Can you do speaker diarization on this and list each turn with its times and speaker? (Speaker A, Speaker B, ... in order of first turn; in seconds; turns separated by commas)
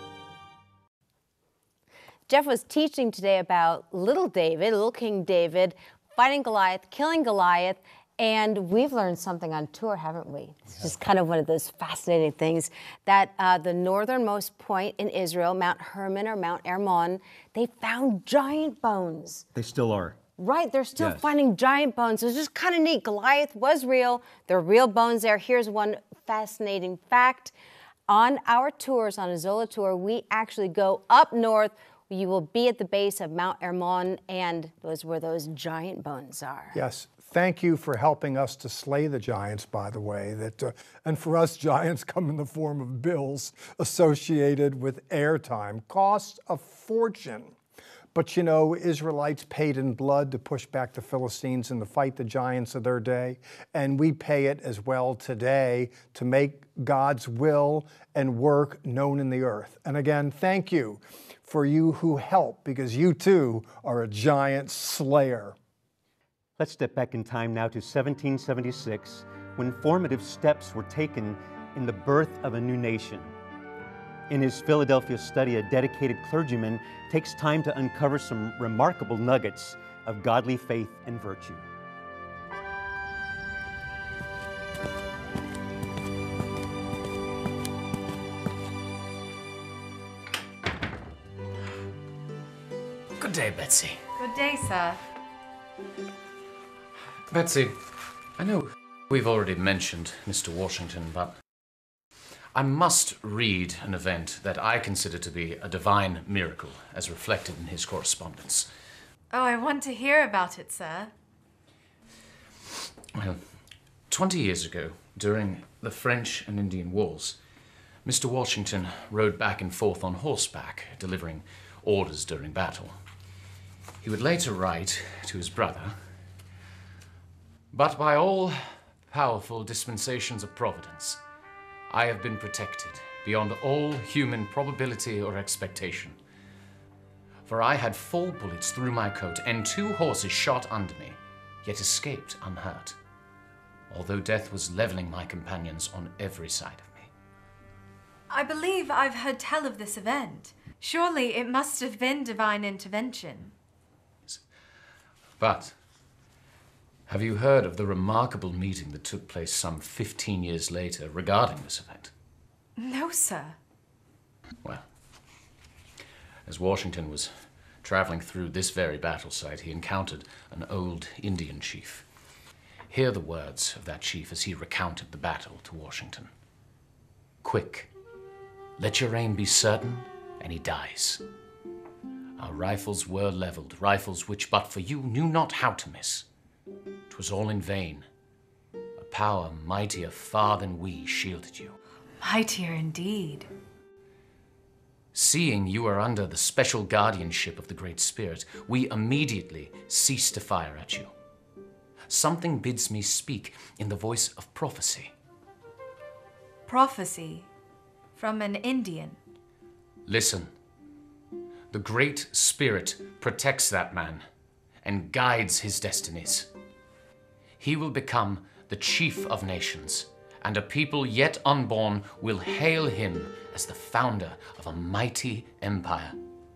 Speaker A: 2.3-19.4, Speaker B: 19.5-20.2, Speaker A: 20.4-27.5, Speaker B: 21.0-21.3, Speaker A: 28.1-36.8, Speaker C: 36.7-47.5, Speaker C: 48.1-65.5, Speaker B: 66.6-73.3, Speaker B: 74.3-81.6, Speaker D: 93.2-94.0, Speaker E: 94.2-95.0, Speaker D: 97.3-97.8, Speaker D: 98.4-101.3, Speaker D: 102.5-108.7, Speaker E: 109.3-111.1, Speaker D: 113.1-113.4, Speaker D: 114.1-117.4, Speaker D: 118.0-122.9, Speaker D: 124.0-126.0, Speaker D: 127.7-131.2, Speaker D: 131.9-136.2, Speaker D: 137.4-142.9, Speaker D: 143.9-147.1, Speaker E: 148.3-153.5, Speaker D: 155.4-155.8, Speaker D: 157.1-162.1, Speaker E: 162.8-163.6, Speaker D: 166.4-167.3, Speaker D: 167.8-172.0, Speaker D: 172.9-176.3, Speaker D: 177.4-177.9, Speaker D: 178.8-181.2, Speaker D: 182.4-186.2, Speaker D: 187.1-188.1, Speaker D: 189.0-191.8, Speaker E: 192.2-193.5, Speaker D: 195.1-201.1, Speaker D: 202.1-205.1, Speaker E: 206.7-207.5, Speaker E: 208.1-209.2, Speaker D: 210.1-210.5, Speaker D: 211.7-214.2, Speaker D: 214.8-216.5, Speaker D: 217.6-226.2